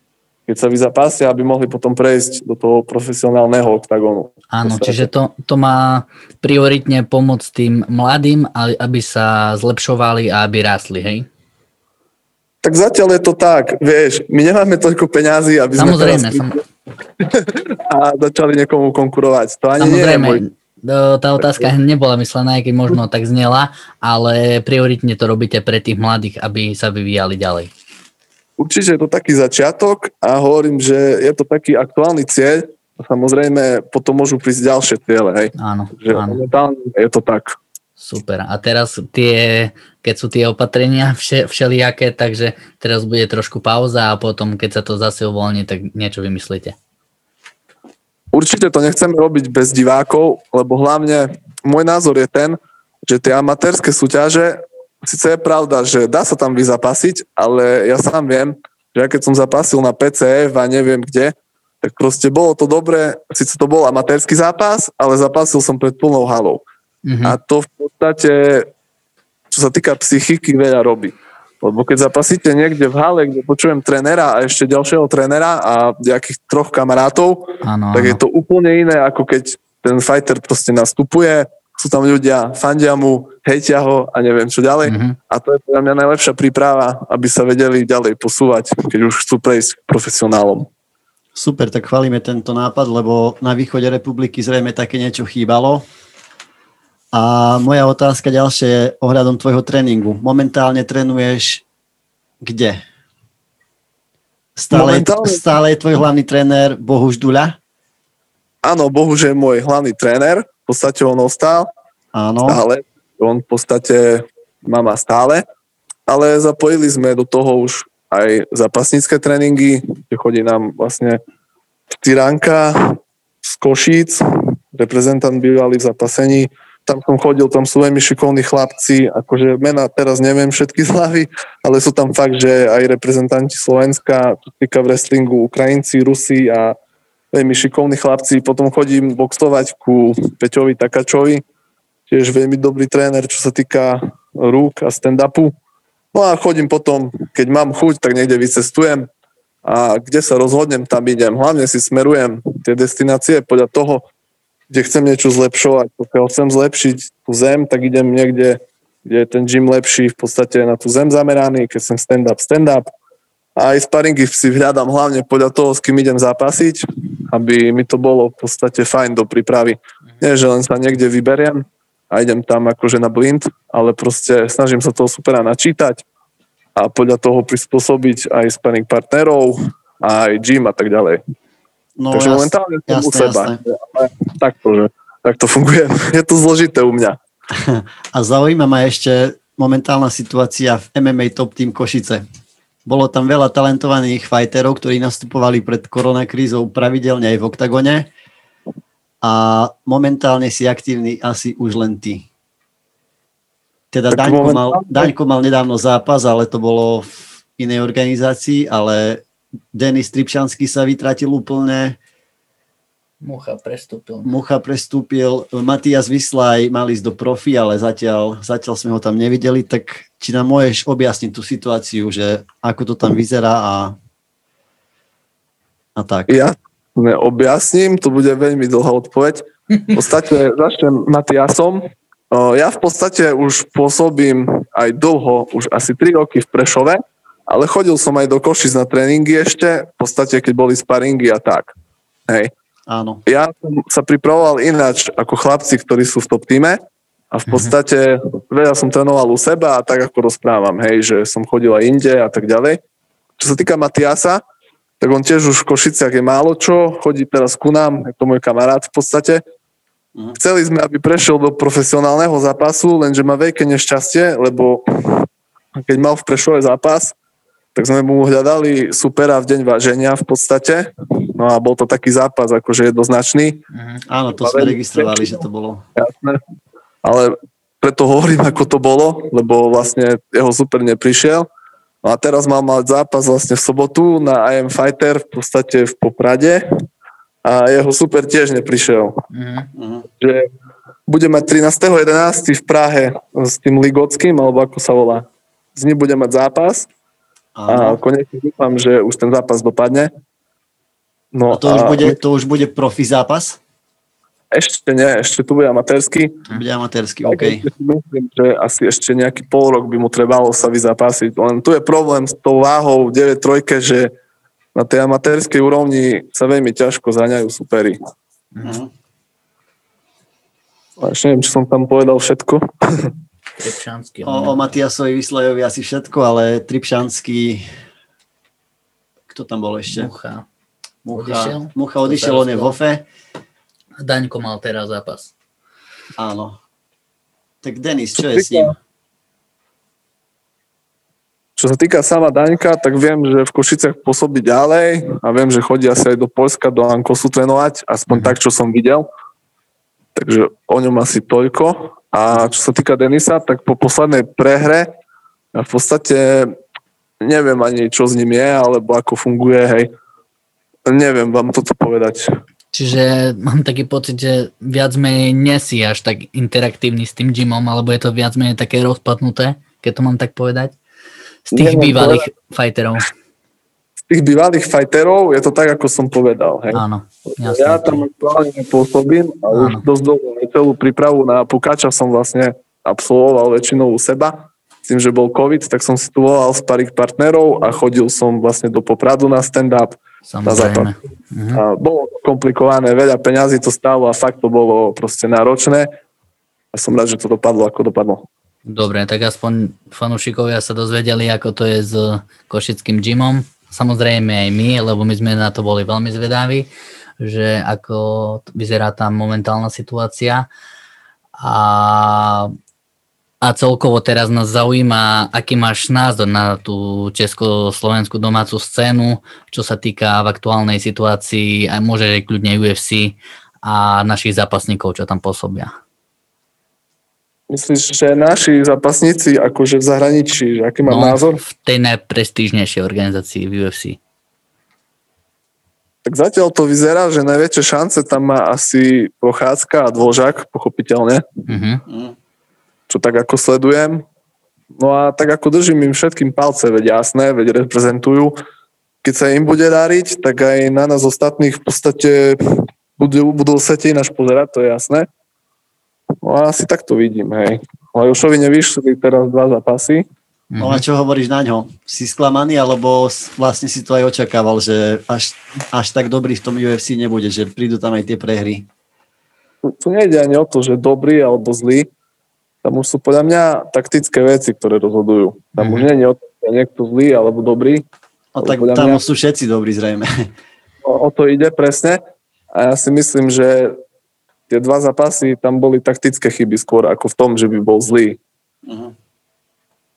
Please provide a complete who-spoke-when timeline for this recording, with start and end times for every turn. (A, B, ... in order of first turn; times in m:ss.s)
0:00.5-0:05.1 A
0:04.5-0:11.3 B
0:12.6-0:16.6 A
0:15.8-0:16.6 B
0:17.2-0:20.4 A
0:19.8-0:27.7 B
0:21.4-0:21.7 A
0:28.6-0:37.6 A
0:35.6-0:36.4 B
0:38.0-0:46.8 B
0:48.3-1:06.6 A
1:07.1-1:07.4 B
1:07.2-1:08.7 A
1:09.5-1:30.7 A
1:17.6-1:18.2 B
1:24.8-1:25.2 B
1:31.4-1:35.8 C
1:37.1-1:41.6 C
1:42.4-1:42.8 C
1:44.6-1:47.6 C
1:44.7-1:45.4 A
1:48.6-1:51.7 A
1:52.1-1:52.6 C
1:52.5-1:55.4 A
1:56.1-2:01.2 A
2:01.9-2:16.8 A
2:17.3-2:21.4 A
2:22.1-2:25.6 A
2:26.1-2:29.1 A
2:29.6-2:34.0 A
2:34.7-2:42.9 A
2:43.6-2:56.0 A
2:56.8-3:01.2 A
3:02.0-3:03.6 C
3:02.1-3:07.2 A
3:07.5-3:12.2 C
3:12.9-3:18.1 C
3:19.2-3:22.3 C
3:23.9-3:32.0 C
3:24.1-3:25.1 A
3:33.2-3:34.3 B
3:34.2-3:44.0 C
3:46.0-3:46.3 C
3:46.3-4:01.7 A
4:02.9-4:03.2 C
4:03.3-4:06.8 A
4:07.3-4:12.8 A
4:13.4-4:14.4 A
4:15.0-4:19.4 A
4:20.4-4:25.3 A
4:25.8-4:27.1 A
4:27.8-4:33.6 A
4:33.7-4:34.0 B
4:34.1-4:35.8 C
4:34.4-4:35.4 A
4:36.0-4:36.4 A
4:37.0-4:41.5 A
4:42.0-4:46.7 A
4:47.4-4:49.2 A
4:49.3-4:49.7 B
4:49.8-4:50.1 C
4:50.2-4:50.5 A
4:51.1-4:56.9 A
4:57.6-4:58.0 C
4:57.7-5:00.1 A
5:01.3-5:02.2 A
5:01.5-5:03.6 C
5:04.5-5:06.5 A
5:06.5-5:07.7 C
5:07.3-5:14.1 A
5:14.8-5:18.0 A
5:18.5-5:18.8 B
5:18.6-5:18.9 C
5:21.0-5:23.1 A
5:23.6-5:24.7 B
5:24.2-5:27.6 C
5:29.3-5:30.1 C
5:29.9-5:30.5 B
5:31.0-5:33.0 C
5:31.1-5:32.8 B
5:34.0-5:35.3 B
5:36.2-5:36.6 C
5:37.6-5:38.8 C
5:38.2-5:38.7 A
5:41.6-5:49.0 A
5:48.1-5:48.4 B
5:50.2-5:54.9 A
5:55.5-5:56.6 A
5:57.2-5:59.9 A
6:00.9-6:02.3 A
6:02.7-6:10.7 B
6:11.5-6:12.3 A
6:11.5-6:13.1 B
6:14.1-6:30.9 A
6:16.7-6:18.0 B
6:19.5-6:19.8 B
6:30.3-6:31.6 B
6:31.6-6:35.9 A
6:36.7-6:38.2 A
6:38.7-6:50.5 B
6:51.4-6:52.6 B
6:53.4-7:05.7 B
7:07.5-7:11.4 A
7:10.8-7:14.0 B
7:16.0-7:21.3 A
7:21.5-7:21.8 B
7:21.9-7:22.2 C
7:22.9-7:24.0 A
7:24.8-7:28.4 A
7:29.0-7:35.1 A
7:36.2-7:40.0 A
7:40.5-7:40.8 B
7:40.6-7:48.7 C
7:49.6-7:51.9 A
7:52.6-7:57.8 A
7:55.6-7:55.9 B
7:58.4-8:00.3 C
7:58.4-7:59.0 A
8:00.8-8:02.0 A
8:02.5-8:03.8 A
8:04.5-8:08.2 A
8:08.6-8:09.0 C